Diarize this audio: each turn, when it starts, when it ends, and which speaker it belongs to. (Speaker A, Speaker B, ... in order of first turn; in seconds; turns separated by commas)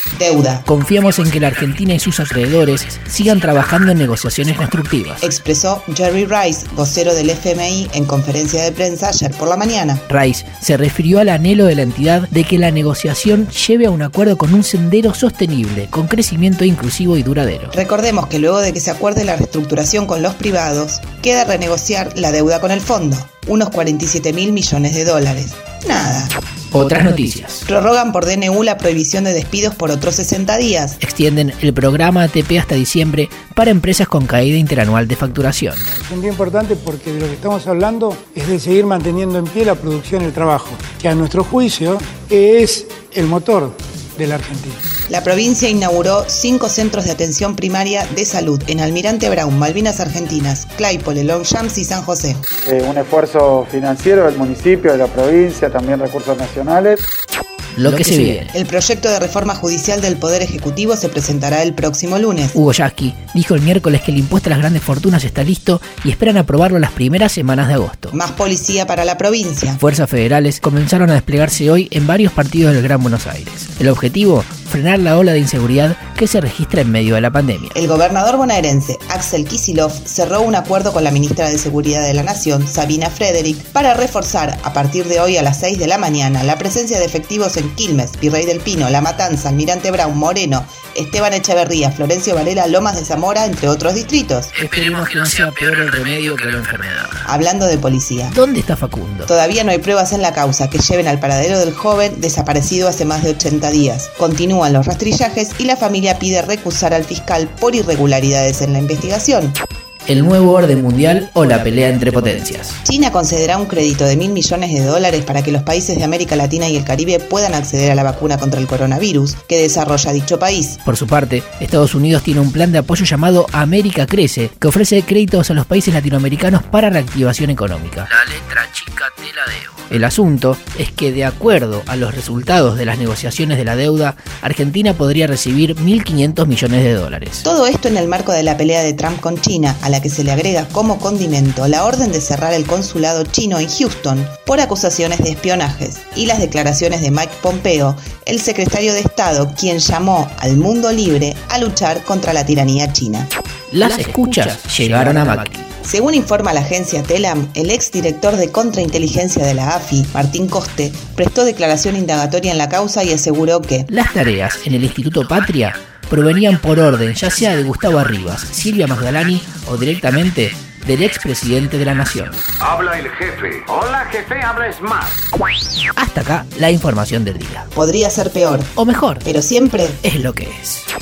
Speaker A: 0.1-0.7, Speaker B: 0.7-5.3, Speaker A: 5.2-10.0, Speaker B: 10.1-17.8, Speaker A: 17.7-26.4, Speaker B: 26.7-27.6, Speaker A: 27.7-31.0, Speaker B: 31.0-35.9, Speaker C: 36.0-44.8, Speaker A: 45.1-52.4, Speaker D: 52.7-57.1, Speaker B: 57.7-58.5, Speaker A: 58.5-62.6, Speaker B: 62.5-68.1, Speaker A: 68.1-69.8, Speaker B: 69.8-77.8, Speaker A: 77.7-94.5, Speaker B: 94.5-97.2, Speaker A: 97.3-98.4, Speaker B: 98.3-99.3, Speaker A: 99.3-109.6, Speaker B: 110.1-112.8, Speaker A: 112.8-120.8, Speaker B: 120.8-137.5, Speaker A: 137.4-153.3, Speaker B: 153.7-155.7, Speaker A: 155.8-163.9, Speaker B: 163.9-172.4, Speaker E: 172.6-175.1, Speaker B: 176.0-177.7, Speaker A: 177.7-180.0, Speaker B: 178.8-179.2, Speaker B: 180.0-180.9